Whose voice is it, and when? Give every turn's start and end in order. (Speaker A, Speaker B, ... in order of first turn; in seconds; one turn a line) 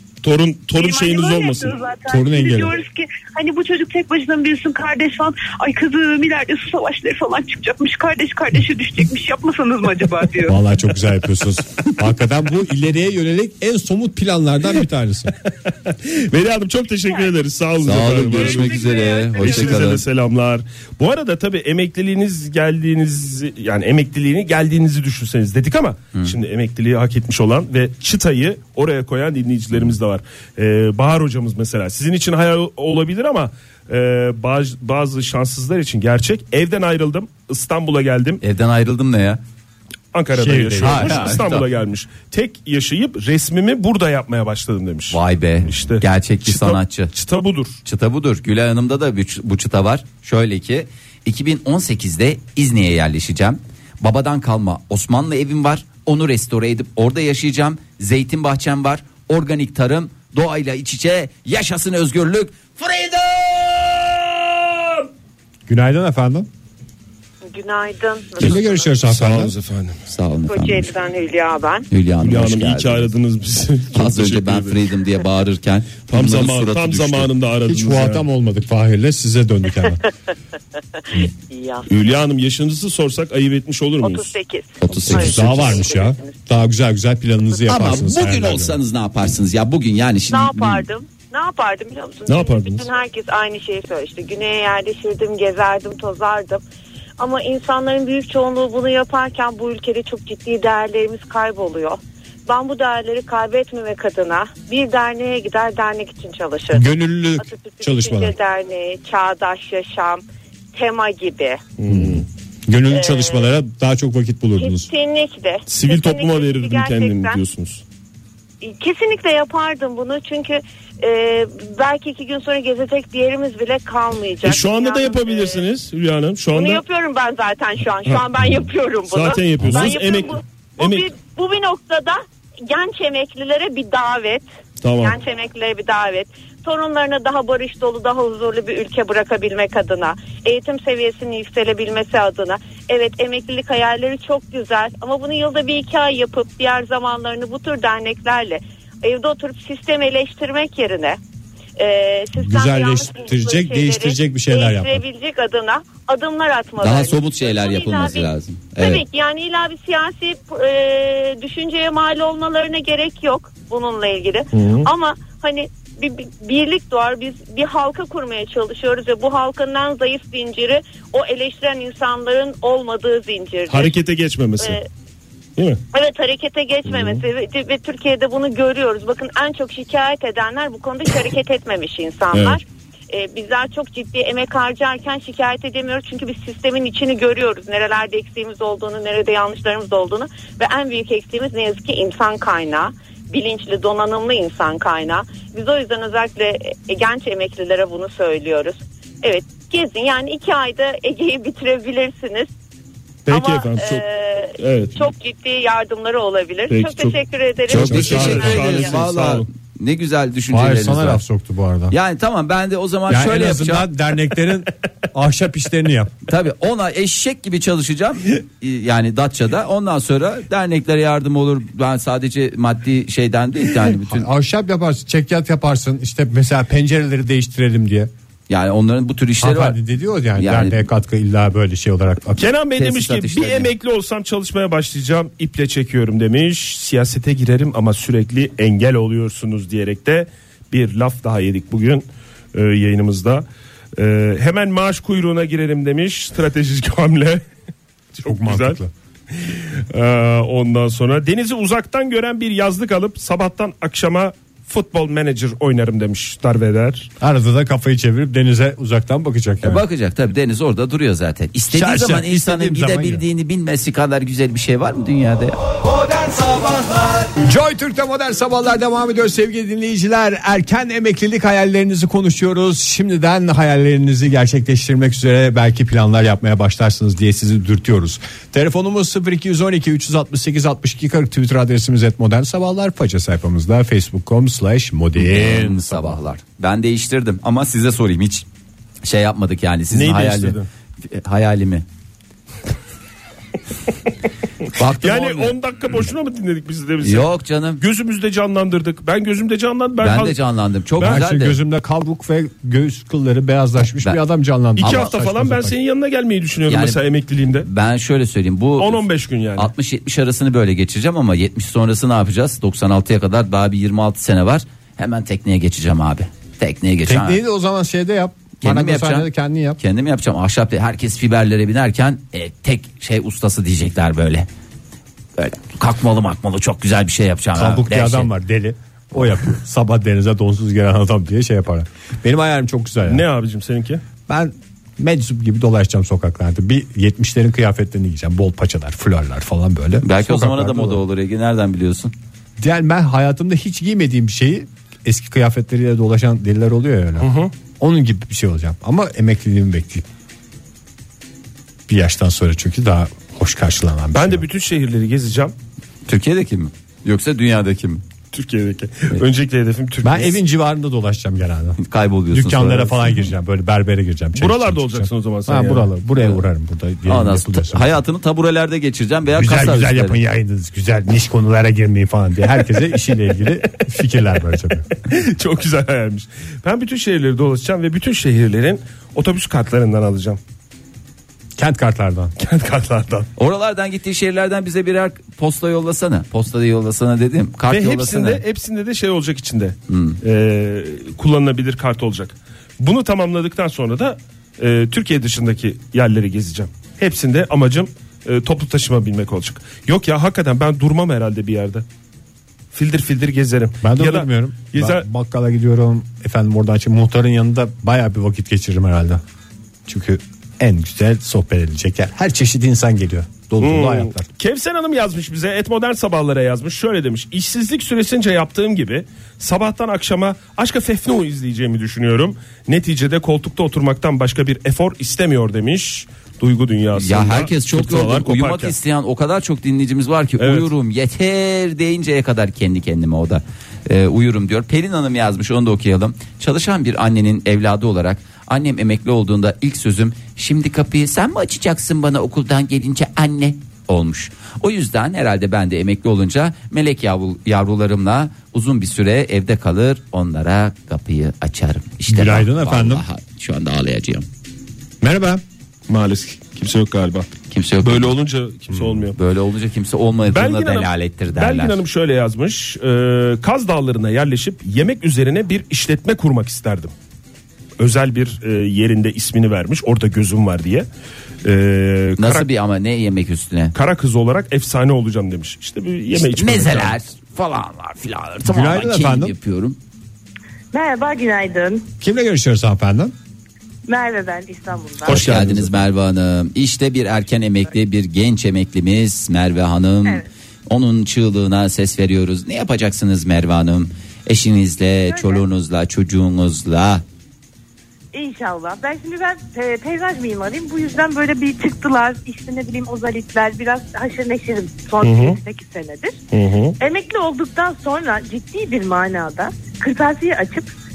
Speaker A: 0.2-1.8
Speaker B: 0.7-10.6
Speaker C: 2.1-2.7
Speaker C: 10.5-15.3
Speaker A: 15.7-38.4
Speaker B: 17.0-17.4
Speaker D: 17.8-20.0
Speaker B: 18.3-19.8
Speaker D: 38.4-39.4
Speaker A: 40.1-47.8
Speaker C: 40.4-41.4
Speaker D: 40.8-41.6
Speaker D: 45.1-47.1
Speaker D: 47.9-64.4
Speaker C: 65.7-66.5
Speaker E: 67.5-69.0
Speaker C: 68.4-69.5
Speaker A: 68.4-70.0
Speaker D: 70.1-70.9
Speaker E: 70.5-71.9
Speaker D: 71.9-73.1
Speaker A: 72.2-74.8
Speaker D: 73.9-77.3
Speaker A: 76.1-78.2
Speaker C: 77.7-80.0
Speaker E: 81.0-81.9
Speaker A: 81.9-84.3
Speaker E: 84.0-86.4
Speaker D: 84.8-85.7
Speaker C: 85.1-88.8
Speaker A: 85.1-85.8
Speaker D: 87.7-90.9
Speaker E: 90.3-96.6
Speaker A: 92.3-92.9
Speaker E: 97.2-111.6
Speaker C: 106.7-108.4
Speaker A: 111.8-112.2
Speaker C: 111.9-114.9
Speaker E: 112.9-113.5
Speaker E: 114.6-117.4
Speaker A: 115.7-117.8
Speaker E: 118.6-125.6
Speaker A: 124.4-126.8
Speaker E: 126.5-134.5
Speaker A: 128.1-131.1
Speaker A: 134.8-135.2
Speaker E: 135.0-151.2
Speaker E: 151.8-174.0
Speaker C: 152.4-155.0
Speaker D: 156.8-159.0
Speaker A: 164.5-164.9
Speaker A: 173.7-174.8
Speaker E: 174.6-174.9
Speaker A: 175.6-175.8
Speaker E: 175.9-202.5
Speaker A: 176.9-177.2
Speaker A: 182.3-182.6
Speaker A: 203.3-204.0
Speaker E: 203.3-208.9
Speaker A: 204.6-205.0
Speaker A: 206.7-207.2
Speaker D: 207.7-211.2
Speaker A: 207.7-209.5
Speaker C: 207.7-208.7
Speaker C: 210.5-211.9
Speaker D: 211.9-213.9
Speaker C: 213.1-216.1
Speaker D: 216.3-224.3
Speaker C: 224.1-228.1
Speaker D: 228.5-229.8
Speaker C: 229.4-232.4
Speaker D: 230.3-230.8
Speaker A: 232.4-247.4
Speaker D: 232.8-233.7
Speaker A: 248.2-248.8
Speaker C: 248.2-248.9
Speaker A: 249.3-257.1
Speaker C: 257.2-259.8
Speaker D: 259.6-267.3
Speaker C: 261.7-263.2
Speaker C: 267.4-286.2
Speaker D: 285.2-288.4
Speaker D: 289.0-291.9
Speaker A: 289.9-290.7
Speaker D: 294.7-295.6
Speaker A: 295.0-297.3
Speaker D: 297.0-297.8
Speaker A: 297.8-300.4
Speaker D: 300.0-301.6
Speaker A: 301.0-301.2
Speaker C: 301.0-305.7
Speaker A: 304.8-307.7
Speaker D: 304.8-305.1
Speaker D: 306.7-307.0
Speaker D: 307.6-309.0
Speaker A: 308.8-309.7
Speaker D: 309.6-317.4
Speaker C: 317.1-319.8
Speaker D: 318.6-319.3
Speaker D: 319.8-324.5
Speaker D: 325.4-328.3
Speaker C: 327.6-333.2
Speaker A: 333.1-334.0
Speaker C: 334.3-341.0
Speaker D: 340.0-342.1
Speaker C: 342.6-350.1
Speaker A: 347.2-347.5
Speaker C: 351.9-354.4
Speaker A: 354.1-355.6
Speaker D: 356.1-358.0
Speaker A: 358.3-360.4
Speaker C: 360.0-361.8
Speaker D: 361.8-363.3
Speaker C: 362.3-368.0
Speaker A: 364.4-365.9
Speaker D: 367.1-370.2
Speaker C: 369.3-374.9
Speaker A: 375.1-380.4
Speaker C: 381.6-382.4
Speaker A: 382.4-383.3
Speaker D: 383.4-388.4
Speaker A: 387.7-401.9
Speaker D: 389.9-390.2
Speaker A: 402.7-405.1
Speaker C: 403.8-409.2
Speaker C: 409.9-414.3
Speaker A: 413.6-428.7
Speaker D: 426.9-454.3
Speaker A: 430.4-430.7
Speaker C: 452.1-453.0
Speaker C: 455.0-455.4
Speaker A: 455.9-457.3
Speaker D: 457.5-458.1
Speaker A: 457.8-459.2
Speaker D: 459.2-461.8
Speaker A: 460.3-466.9
Speaker A: 467.8-470.9
Speaker A: 471.4-472.5
Speaker D: 472.2-473.7
Speaker A: 473.7-477.0
Speaker D: 476.2-479.8
Speaker C: 478.4-479.3
Speaker F: 480.7-481.9
Speaker C: 482.0-483.1
Speaker F: 483.9-485.2
Speaker D: 485.1-497.0
Speaker C: 485.1-485.8
Speaker A: 485.1-485.6
Speaker F: 495.1-495.4
Speaker F: 498.1-506.2
Speaker A: 505.0-505.4
Speaker A: 506.3-506.8
Speaker F: 506.8-510.7